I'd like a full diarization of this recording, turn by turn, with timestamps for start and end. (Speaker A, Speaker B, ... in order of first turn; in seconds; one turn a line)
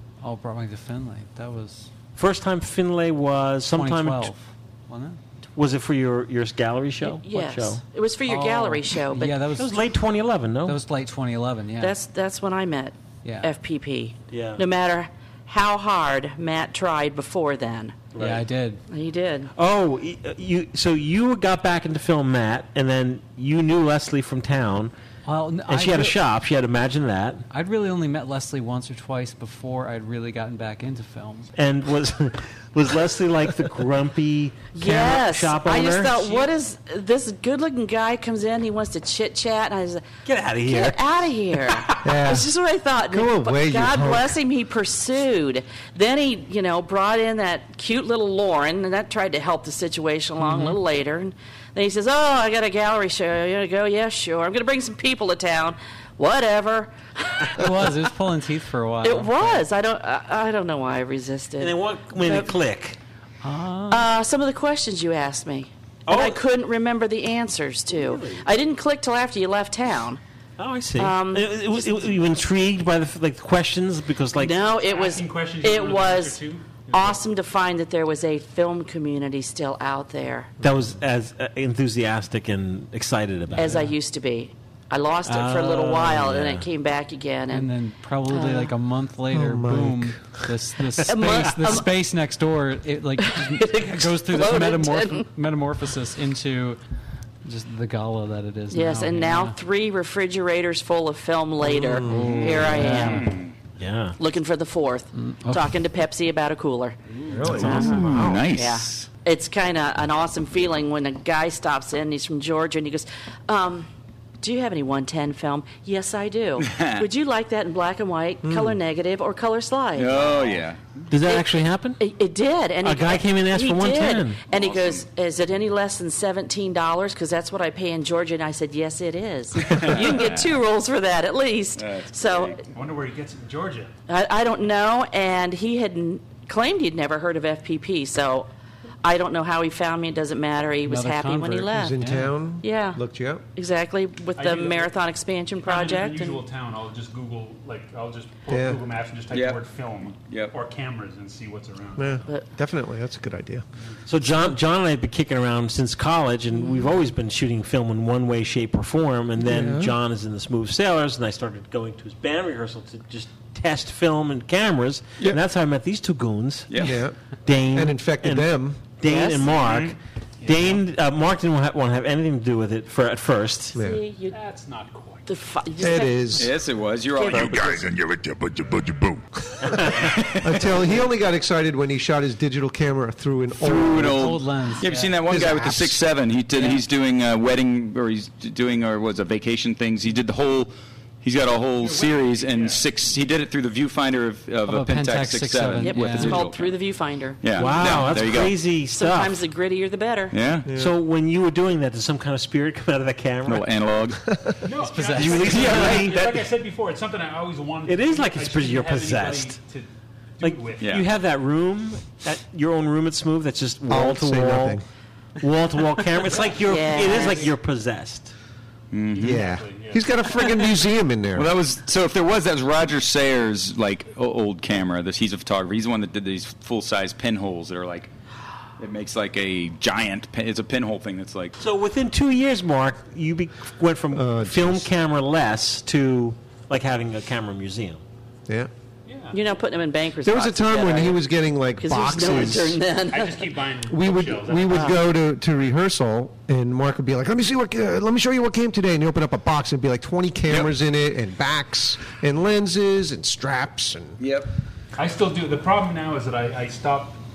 Speaker A: 0.2-1.9
Speaker B: 2.1-4.3
Speaker A: 3.7-5.2
Speaker B: 5.5-7.8
Speaker C: 7.0-9.4
Speaker A: 8.3-9.8
Speaker B: 8.5-8.8
Speaker B: 9.6-10.8
Speaker A: 10.6-11.9
Speaker C: 11.8-18.1
Speaker A: 13.2-13.5
Speaker B: 14.3-14.6
Speaker B: 18.1-18.4
Speaker A: 18.1-18.8
Speaker C: 18.9-19.5
Speaker B: 19.6-24.9
Speaker A: 25.2-26.2
Speaker B: 25.7-27.4
Speaker A: 27.5-31.5
Speaker B: 31.6-36.4
Speaker C: 34.7-40.1
Speaker B: 40.2-42.0
Speaker C: 40.6-57.9
Speaker D: 42.0-42.5
Speaker D: 43.0-44.4
Speaker A: 50.4-50.8
Speaker A: 57.5-59.7
Speaker C: 59.0-62.5
Speaker B: 61.6-63.0
Speaker A: 63.4-64.1
Speaker C: 63.9-70.2
Speaker B: 66.1-66.4
Speaker B: 67.9-68.5
Speaker B: 70.6-74.5
Speaker C: 70.9-72.3
Speaker C: 74.3-76.4
Speaker E: 74.7-77.2
Speaker C: 76.9-80.5
Speaker B: 80.6-83.8
Speaker C: 83.5-87.7
Speaker A: 83.6-83.9
Speaker B: 85.2-86.7
Speaker A: 87.5-96.8
Speaker C: 88.3-88.7
Speaker D: 89.3-90.2
Speaker C: 91.1-91.9
Speaker C: 93.2-95.2
Speaker A: 97.4-99.6
Speaker C: 98.7-103.3
Speaker D: 101.6-102.7
Speaker B: 102.3-103.3
Speaker A: 102.7-103.2
Speaker F: 103.1-103.5
Speaker B: 103.8-104.2
Speaker C: 104.2-107.0
Speaker A: 105.2-105.7
Speaker B: 107.3-108.4
Speaker D: 107.3-108.4
Speaker C: 107.5-113.9
Speaker F: 107.9-109.1
Speaker C: 114.4-120.6
Speaker F: 116.6-117.0
Speaker D: 118.4-118.8
Speaker F: 119.9-121.0
Speaker B: 121.1-122.0
Speaker C: 121.2-121.5
Speaker C: 122.0-132.6
Speaker B: 122.8-124.4
Speaker F: 124.5-125.0
Speaker F: 129.6-130.6
Speaker F: 131.8-132.6
Speaker E: 132.7-133.9
Speaker C: 134.1-138.5
Speaker C: 139.0-141.9
Speaker A: 140.8-142.3
Speaker D: 141.7-143.4
Speaker C: 142.6-143.0
Speaker C: 143.6-146.4
Speaker E: 144.3-144.9
Speaker E: 145.6-152.2
Speaker D: 148.5-148.8
Speaker F: 149.3-149.6
Speaker F: 150.3-150.5
Speaker D: 152.0-153.6
Speaker B: 154.1-166.8
Speaker D: 159.4-159.9
Speaker F: 166.7-167.0
Speaker D: 166.8-167.1
Speaker B: 167.4-173.8
Speaker D: 167.7-168.8
Speaker C: 169.0-169.6
Speaker E: 170.4-170.8
Speaker D: 173.7-174.0
Speaker C: 173.8-174.3
Speaker E: 174.3-175.3
Speaker C: 175.3-176.5
Speaker D: 175.8-176.5
Speaker F: 176.3-177.8
Speaker C: 177.1-177.7
Speaker G: 177.3-179.2
Speaker F: 179.9-180.7
Speaker D: 180.3-184.4
Speaker F: 183.6-190.7
Speaker A: 184.0-185.2
Speaker D: 185.2-186.0
Speaker F: 191.2-196.7
Speaker E: 191.8-192.8
Speaker A: 194.7-196.4
Speaker C: 195.8-198.2
Speaker F: 197.4-198.6
Speaker B: 197.5-199.4
Speaker C: 198.9-200.3
Speaker F: 200.3-200.7
Speaker D: 200.7-200.9
Speaker B: 200.7-203.7
Speaker F: 203.4-204.2
Speaker E: 204.6-211.0
Speaker A: 204.8-206.2
Speaker B: 205.1-206.4
Speaker B: 207.9-209.6
Speaker B: 210.4-214.8
Speaker F: 210.8-211.1
Speaker D: 213.9-214.8
Speaker B: 215.4-218.3
Speaker E: 216.3-217.2
Speaker C: 216.6-217.5
Speaker F: 218.9-219.4
Speaker E: 219.2-220.7
Speaker D: 219.2-221.5
Speaker F: 221.3-228.1
Speaker F: 228.8-231.6
Speaker B: 231.6-238.0
Speaker D: 234.1-234.9
Speaker E: 239.1-239.4
Speaker C: 239.3-241.2
Speaker D: 240.2-242.8
Speaker C: 241.8-243.4
Speaker E: 243.1-245.0
Speaker D: 243.9-254.2
Speaker C: 244.7-245.0
Speaker F: 254.2-254.5
Speaker E: 254.9-257.2